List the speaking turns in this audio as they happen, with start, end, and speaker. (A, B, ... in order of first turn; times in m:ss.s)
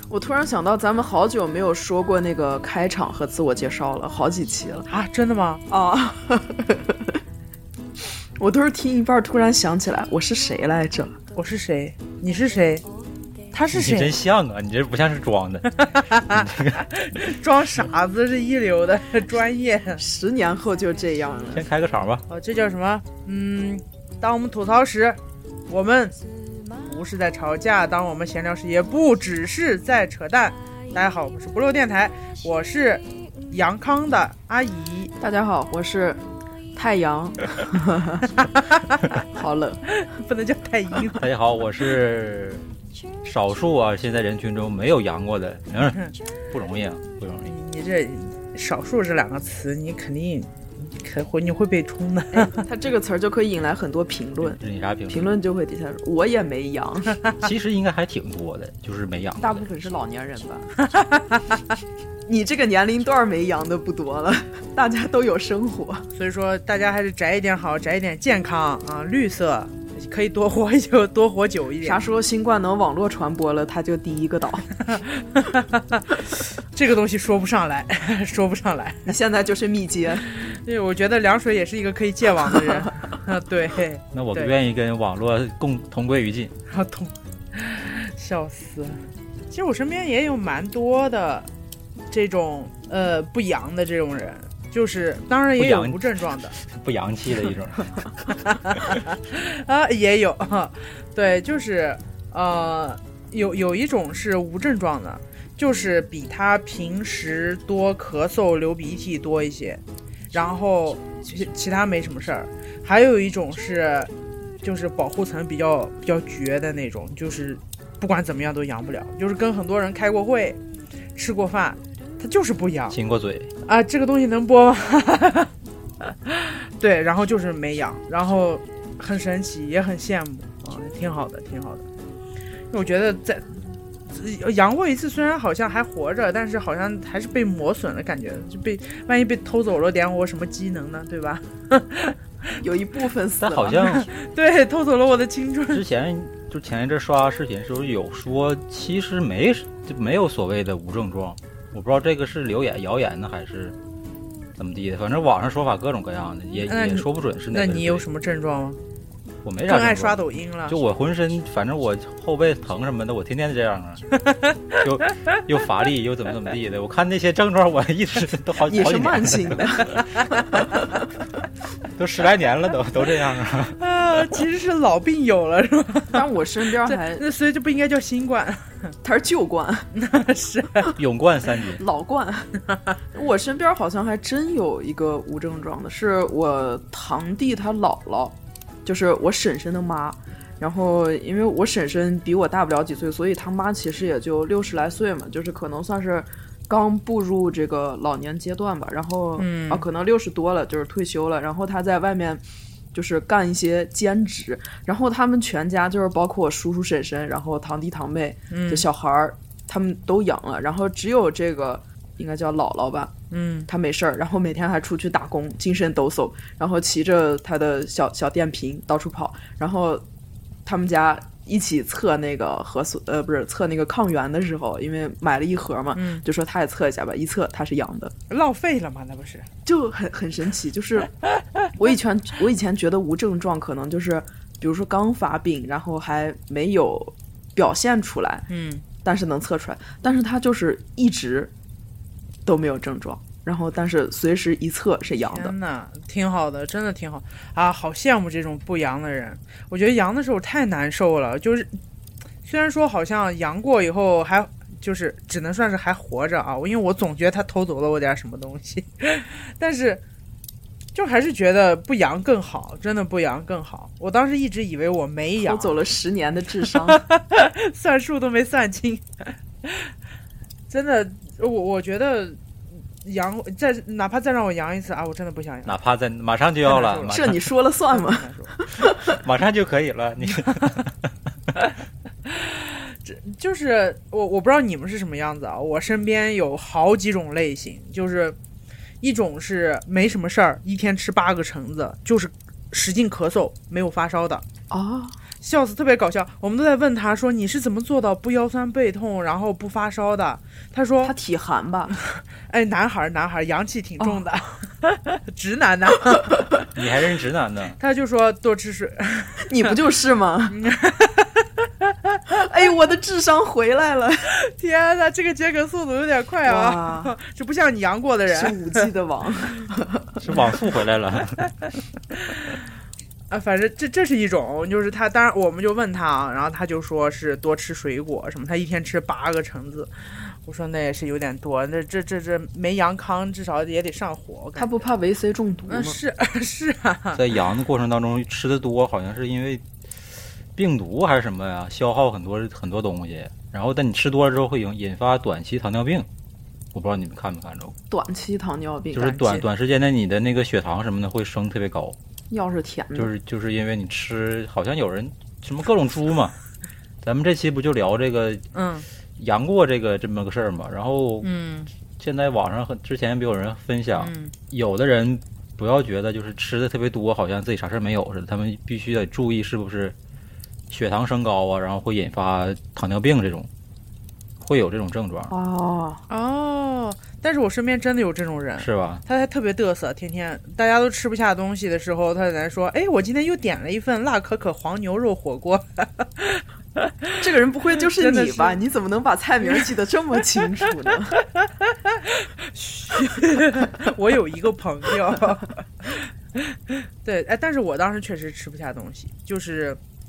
0:00.1-0:04.9 A
0:04.9-0:05.6 B
0:05.7-0:07.2 A
0:08.4-0:11.2 A
0:11.4-0:12.8 B
0:13.5-0:14.1 B
0:13.7-0:16.9 C
0:15.8-0:20.0 B
0:20.0-0:21.7 A
0:21.5-0:22.2 C
0:22.3-0:26.2 B
0:26.8-0:35.1 B
0:35.2-0:36.2 A
0:36.8-0:38.3 A
0:38.4-0:39.1 B
0:39.3-0:39.8 A
0:39.9-0:41.2 B
0:41.2-0:42.7 C
0:43.2-0:47.5 C
0:47.4-0:52.6 B
0:52.3-0:57.2 A
0:54.4-0:55.4 C
0:57.4-0:59.6 C
0:59.4-1:00.8 A
1:00.8-1:01.6 B
1:02.3-1:06.1 A
1:06.1-1:12.0 B
1:11.8-1:14.7 A
1:14.8-1:19.1 B
1:19.1-1:20.3 A
1:20.3-1:24.5 B
1:24.1-1:26.5 C
1:26.7-1:31.5 B
1:32.1-1:36.5 B
1:35.6-1:36.0 C
1:36.6-1:38.4 C
1:38.4-1:54.1 B
1:54.6-2:00.6 B
2:01.2-2:03.0 B
2:02.9-2:03.5 C
2:03.6-2:05.5 B
2:06.0-2:11.8 B
2:12.7-2:13.5 B
2:14.1-2:22.2 B
2:22.6-2:24.0 A
2:23.4-2:24.1 C
2:23.8-2:25.8 B
2:25.7-2:33.8 C
2:34.6-2:38.0 C
2:36.7-2:38.8 B
2:39.4-2:44.0 C
2:39.7-2:40.8 B
2:44.2-2:45.1 B
2:44.8-2:49.8 C
2:48.7-2:49.9 A
2:49.9-2:50.9 B
2:52.0-2:53.8 C
2:53.8-2:56.2 B
2:56.1-2:57.2 A
2:56.8-2:58.9 B
2:59.0-2:59.9 A
2:59.9-3:01.0 B
3:00.9-3:01.8 C
3:01.8-3:02.5 A
3:03.1-3:22.4 A
3:19.4-3:19.9 B
3:22.9-3:33.1 A
3:28.5-3:28.9 B
3:33.3-3:33.7 B
3:33.7-3:40.0 A
3:40.7-3:48.1 A
3:45.9-3:46.2 B
3:48.3-3:49.5 B
3:49.6-3:51.1 A
3:51.8-3:58.5 A
3:58.5-3:58.8 B
3:59.0-4:01.5 A
4:02.5-4:05.6 A
4:05.3-4:11.7 B
4:12.4-4:20.0 B
4:21.0-4:25.8 B
4:25.4-4:27.0 A
4:26.6-4:29.9 B
4:30.7-4:32.4 B
4:33.0-4:35.7 B
4:35.7-4:37.4 C
4:36.7-4:37.2 B
4:37.1-4:39.2 A
4:37.9-4:38.5 B
4:39.1-4:41.0 C
4:42.3-4:48.4 B
4:49.0-4:54.4 B
4:54.7-4:55.2 A
4:55.4-5:01.1 B
5:01.0-5:02.0 A
5:02.0-5:06.4 B
5:06.7-5:07.8 C
5:07.8-5:09.5 B
5:09.5-5:10.6 A
5:10.5-5:12.3 B
5:12.3-5:14.3 A
5:14.3-5:18.8 B
5:16.5-5:17.1 A
5:18.3-5:20.2 A
5:20.2-5:21.5 C
5:22.1-5:22.6 B
5:23.3-5:34.9 B
5:34.6-5:36.0 A
5:35.7-5:37.2 B
5:37.2-5:39.6 C
5:40.6-5:46.1 C
5:46.7-5:47.8 C
5:47.9-5:49.2 A
5:48.9-5:52.0 C
5:49.2-5:49.4 B
5:52.3-5:53.1 A
5:53.0-5:56.3 C
5:57.0-5:58.4 C
5:58.5-5:58.9 B
5:59.2-6:01.3 C
6:01.2-6:01.7 B
6:02.0-6:10.0 C
6:04.0-6:04.3 B
6:10.7-6:13.5 C
6:14.4-6:15.3 C
6:15.3-6:16.0 A
6:16.1-6:27.2 B
6:18.6-6:19.0 C
6:27.2-6:31.2 A
6:27.9-6:28.6 B
6:31.4-6:39.8 B